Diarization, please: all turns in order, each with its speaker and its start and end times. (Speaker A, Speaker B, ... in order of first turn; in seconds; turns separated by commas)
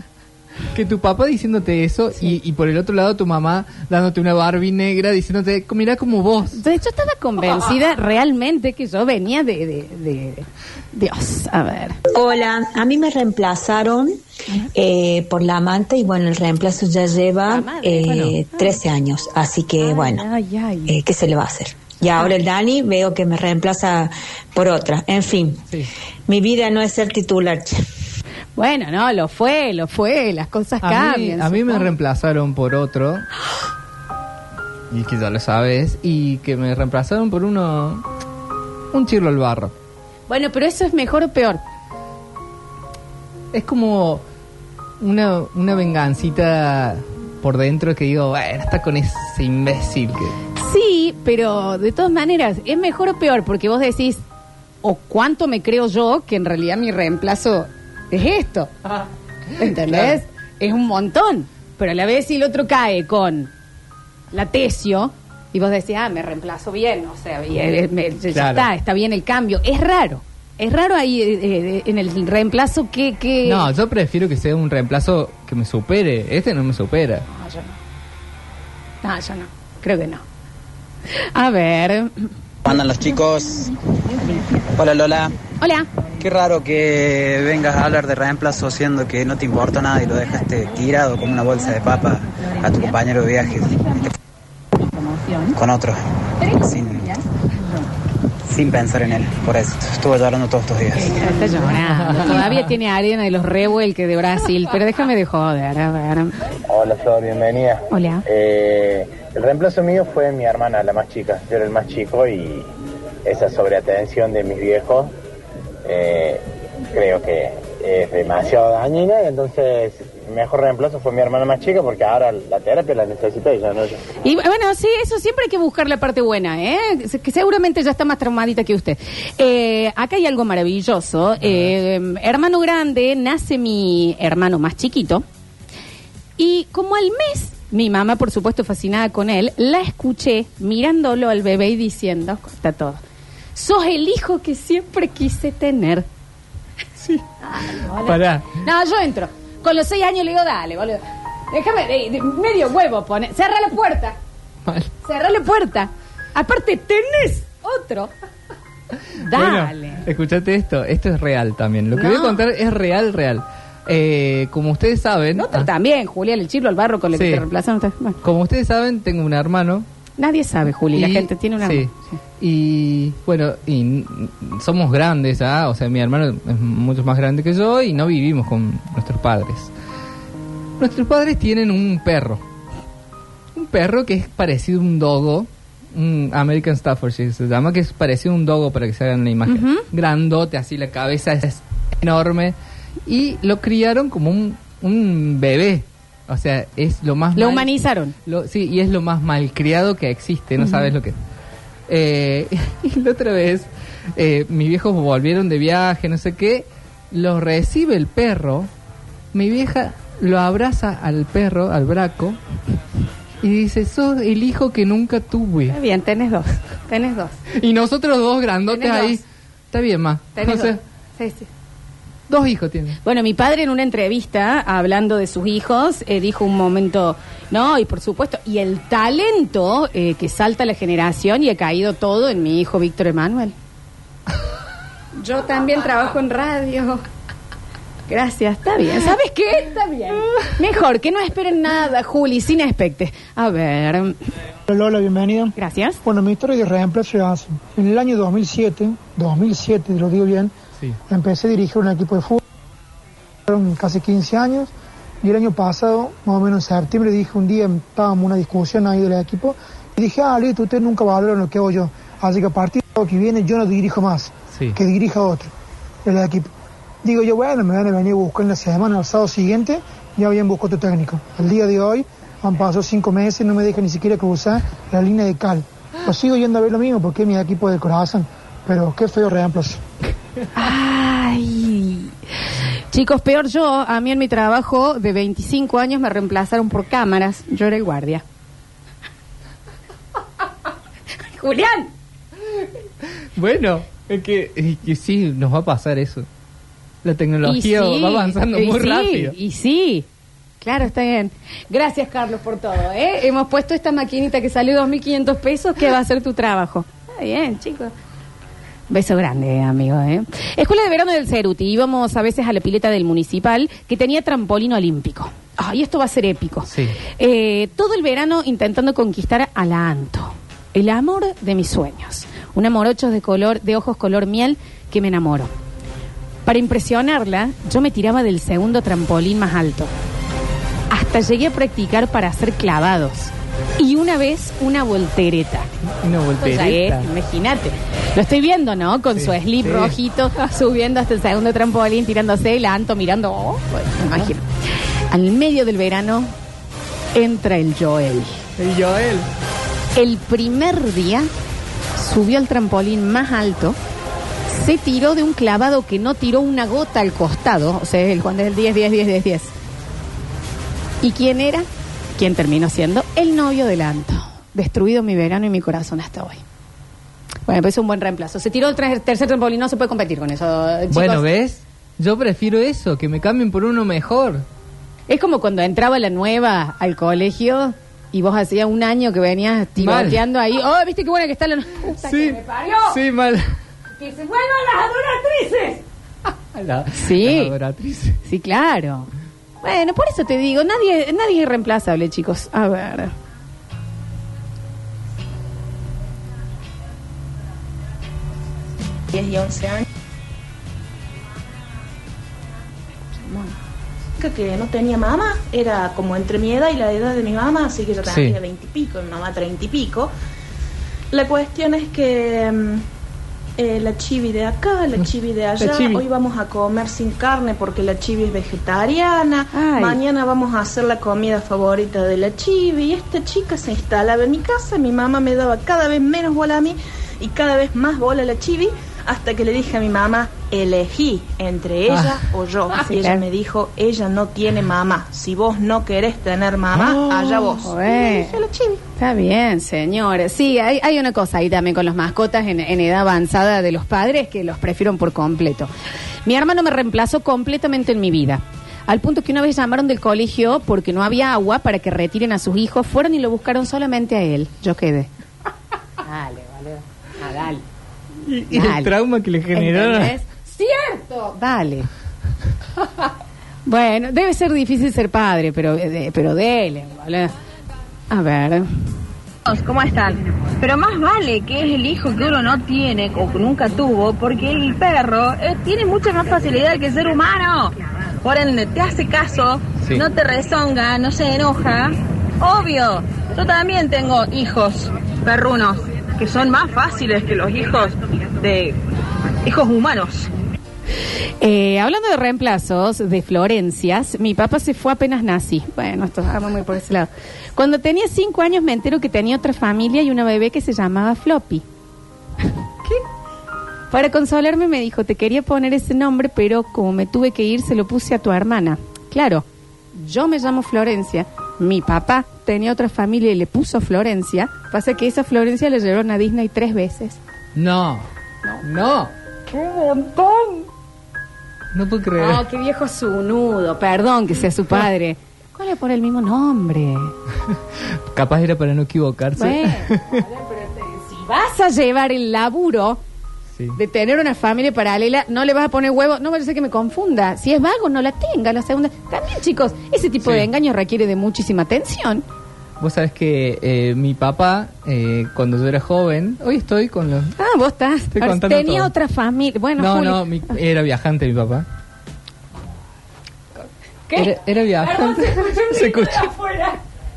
Speaker A: 0.7-6.6, Speaker B: 6.5-12.0, Speaker C: 12.1-14.2, Speaker C: 14.7-20.3, Speaker B: 17.4-18.8, Speaker A: 18.0-18.4, Speaker B: 19.8-20.9, Speaker C: 20.9-25.6, Speaker C: 26.3-27.8, Speaker B: 28.6-31.9, Speaker A: 30.8-33.2, Speaker A: 34.9-38.1, Speaker A: 38.9-39.7, Speaker B: 40.3-41.6, Speaker A: 43.5-44.2, Speaker A: 45.0-50.4, Speaker B: 50.5-54.2, Speaker B: 54.8-58.9, Speaker B: 59.6-63.5, Speaker A: 59.7-60.2, Speaker B: 64.3-73.7, Speaker A: 68.3-68.7, Speaker A: 73.4-77.3, Speaker B: 77.3-77.8, Speaker B: 79.0-80.2, Speaker B: 81.2-82.3, Speaker D: 82.7-83.7, Speaker D: 84.7-85.3, Speaker B: 85.6-85.9, Speaker D: 86.2-94.1, Speaker D: 95.5-97.2, Speaker D: 98.5-101.3, Speaker B: 101.0-106.3, Speaker A: 102.1-102.6, Speaker E: 106.7-112.7, Speaker B: 107.9-108.2, Speaker E: 113.2-115.1, Speaker E: 115.8-124.0, Speaker B: 124.2-135.2, Speaker A: 131.4-131.7, Speaker B: 136.4-143.0, Speaker B: 143.5-146.1, Speaker A: 147.0-147.3, Speaker B: 147.4-154.2, Speaker A: 147.8-148.5, Speaker A: 154.6-154.9, Speaker B: 155.0-158.1, Speaker B: 159.2-160.0, Speaker A: 159.3-165.7, Speaker B: 161.9-162.4, Speaker B: 165.3-168.2, Speaker A: 167.1-167.4, Speaker A: 168.2-169.8, Speaker B: 170.2-172.2, Speaker A: 170.9-179.7, Speaker A: 180.8-182.4, Speaker A: 183.5-201.1, Speaker B: 189.5-189.9, Speaker B: 197.3-198.1, Speaker B: 200.6-200.9, Speaker A: 201.9-208.7, Speaker A: 209.3-212.4, Speaker A: 213.4-215.8, Speaker B: 215.7-217.4, Speaker A: 217.5-220.8, Speaker B: 218.7-219.2, Speaker B: 220.3-221.5, Speaker A: 222.3-223.0, Speaker B: 223.0-233.5, Speaker B: 235.2-237.0, Speaker B: 238.1-244.2, Speaker F: 244.7-250.5, Speaker B: 245.6-246.0, Speaker F: 251.1-252.4, Speaker F: 253.5-265.5, Speaker A: 264.5-264.8, Speaker F: 266.0-266.5, Speaker F: 267.0-279.8, Speaker B: 280.5-288.2, Speaker B: 291.2-291.9, Speaker A: 293.3-296.3, Speaker A: 297.0-299.4, Speaker B: 297.4-300.1, Speaker B: 300.6-307.9, Speaker B: 308.9-325.5, Speaker A: 316.7-317.0, Speaker B: 326.4-329.9, Speaker B: 330.9-335.7, Speaker A: 336.0-337.1, Speaker B: 336.4-344.5, Speaker A: 339.1-340.0, Speaker B: 345.1-346.3, Speaker B: 347.1-348.4, Speaker A: 348.6-349.3, Speaker B: 349.9-351.3, Speaker B: 351.9-353.8, Speaker B: 354.5-359.5, Speaker B: 361.0-366.4, Speaker B: 367.4-371.2, Speaker A: 370.9-374.4, Speaker B: 375.1-383.0, Speaker A: 379.8-380.2, Speaker A: 381.9-383.6, Speaker B: 384.0-385.8, Speaker A: 386.5-388.2, Speaker B: 386.9-387.5, Speaker B: 388.2-389.1, Speaker B: 389.6-393.1, Speaker G: 399.1-399.9, Speaker G: 403.2-403.5, Speaker G: 404.2-410.1, Speaker A: 408.0-408.4, Speaker G: 411.1-412.9, Speaker G: 413.6-438.8, Speaker A: 415.0-416.0, Speaker B: 419.5-420.0, Speaker A: 431.9-432.2, Speaker B: 432.7-433.2, Speaker A: 436.7-437.5, Speaker B: 437.2-438.4, Speaker B: 438.9-445.7, Speaker B: 446.2-455.1, Speaker B: 456.0-457.6, Speaker A: 458.2-460.1, Speaker B: 458.5-458.9, Speaker B: 459.5-461.9, Speaker B: 463.6-467.3, Speaker B: 468.1-468.7, Speaker H: 469.4-477.7, Speaker H: 478.2-488.8, Speaker H: 489.4-490.3, Speaker B: 491.4-501.6, Speaker B: 503.9-517.2, Speaker A: 517.5-518.1, Speaker A: 518.6-519.1, Speaker B: 519.5-520.6, Speaker A: 521.7-522.5, Speaker B: 522.2-527.1, Speaker A: 527.5-530.2, Speaker B: 529.4-533.0, Speaker A: 533.5-533.8, Speaker B: 533.7-542.2, Speaker A: 540.2-540.5, Speaker A: 542.8-547.3, Speaker B: 547.4-550.5, Speaker A: 548.1-548.9, Speaker A: 549.8-551.7, Speaker B: 554.1-556.8, Speaker A: 554.1-556.3